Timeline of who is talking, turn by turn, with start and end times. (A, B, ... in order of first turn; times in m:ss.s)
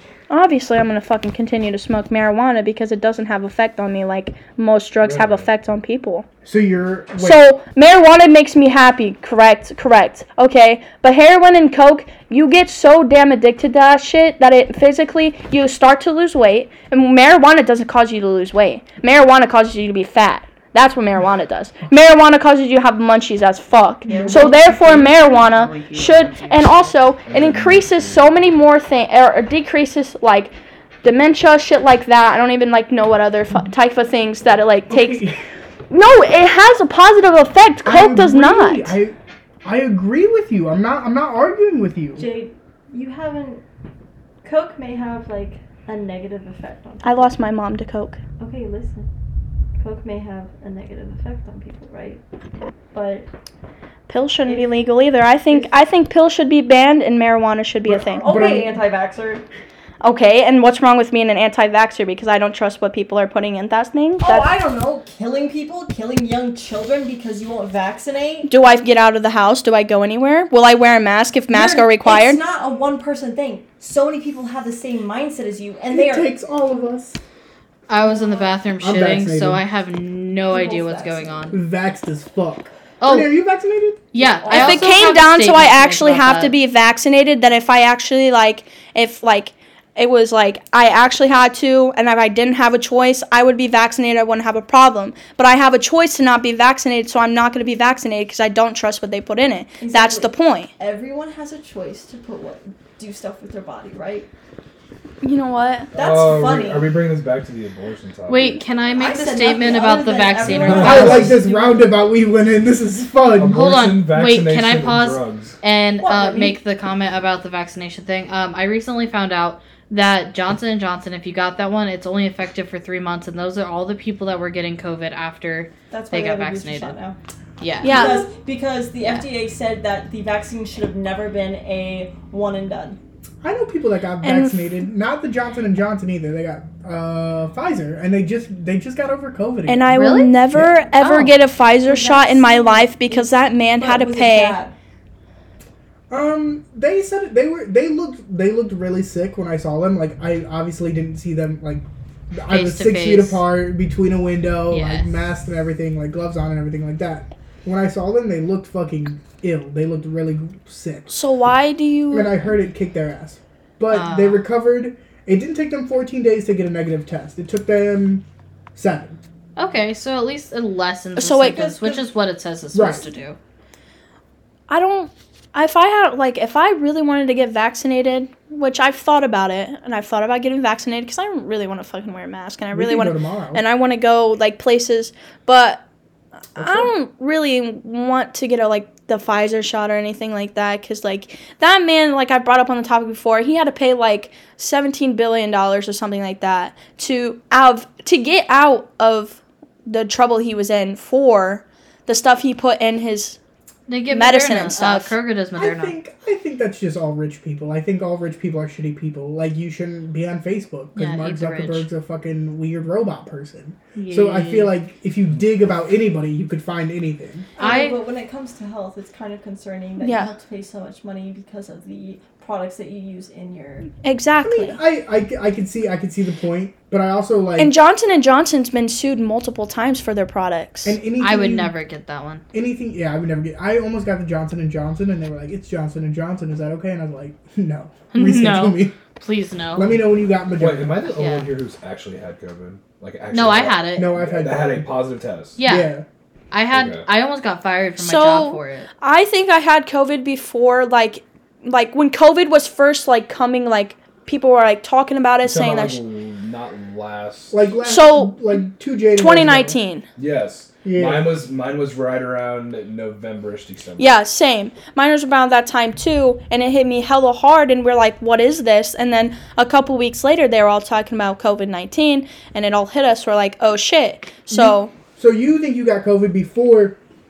0:00.3-0:06.3 A
0:05.0-0:05.5 B
0:06.4-0:07.4 C
0:07.2-0:35.4 A
0:24.1-0:26.9 D
0:24.1-0:24.4 E
0:27.3-0:28.4 B
0:34.9-0:35.5 C
0:35.9-0:39.0 A
0:37.8-0:42.3 C
0:42.2-0:43.6 E
0:44.4-0:47.3 E
0:47.0-0:48.2 A
0:48.4-0:49.1 E
0:49.8-0:52.2 E
0:52.9-0:53.3 E
0:54.1-0:58.3 A
0:54.5-0:54.7 E
0:57.9-0:58.8 C
0:58.2-0:59.4 E
1:00.0-1:04.5 A
1:04.2-1:08.5 E
1:08.5-1:12.4 A
1:11.5-1:16.3 E
1:15.9-1:17.2 C
1:17.9-1:21.6 D
1:18.0-1:18.6 E
1:18.8-1:19.6 C
1:20.5-1:21.6 E
1:21.5-1:24.0 C
1:23.0-1:23.3 D
1:24.1-1:26.5 D
1:24.2-1:25.0 E
1:24.5-1:40.7 A
1:39.8-1:44.3 E
1:45.2-1:45.9 A
1:45.9-1:48.7 B
1:46.0-1:47.0 E
1:48.3-1:51.4 D
1:48.9-1:51.9 E
1:50.4-1:51.4 B
1:50.8-1:53.8 C
1:53.3-1:55.6 B
1:53.5-2:07.0 D
1:56.0-1:56.6 E
2:05.9-2:07.2 E
2:07.6-2:08.3 D
2:07.8-2:08.3 A
2:07.8-2:13.0 E
2:13.4-2:20.8 C
2:14.2-2:14.6 A
2:19.7-2:24.6 A
2:19.9-2:20.4 D
2:21.0-2:21.3 D
2:21.8-2:24.7 E
2:26.1-2:41.1 C
2:32.5-2:33.4 D
2:34.7-2:35.2 D
2:41.1-2:42.5 A
2:42.1-2:48.2 C
2:43.9-2:44.4 D
2:48.8-2:49.2 C
2:49.6-2:53.4 D
2:51.2-2:51.9 A
2:52.7-2:53.0 C
2:54.7-3:05.8 A
3:02.7-3:03.6 C
3:06.6-3:23.4 A
3:06.6-3:06.9 C
3:23.9-3:26.0 D
3:24.1-3:25.1 A
3:25.6-3:37.5 C
3:31.0-3:31.9 D
3:34.0-3:34.7 D
3:37.6-3:38.0 D
3:37.6-3:43.9 E
3:40.0-3:40.3 A
3:44.0-3:44.8 A
3:44.4-3:47.7 C
3:47.6-3:51.0 A
3:50.8-3:51.7 C
3:51.2-3:52.4 D
3:52.5-3:59.0 C
3:58.1-3:59.8 D
3:59.8-4:01.0 C
4:00.6-4:05.6 B
4:01.1-4:01.5 D
4:03.3-4:04.1 D
4:04.0-4:05.0 C
4:05.6-4:06.0 D
4:05.6-4:06.0 C
4:06.5-4:08.9 D
4:06.7-4:07.1 B
4:08.0-4:16.0 A
4:15.4-4:17.7 B
4:17.5-4:19.8 C
4:17.8-4:18.6 A
4:19.2-4:20.1 A
4:20.2-4:24.2 B
4:20.8-4:21.3 C
4:24.0-4:34.9 A
4:34.5-4:37.0 C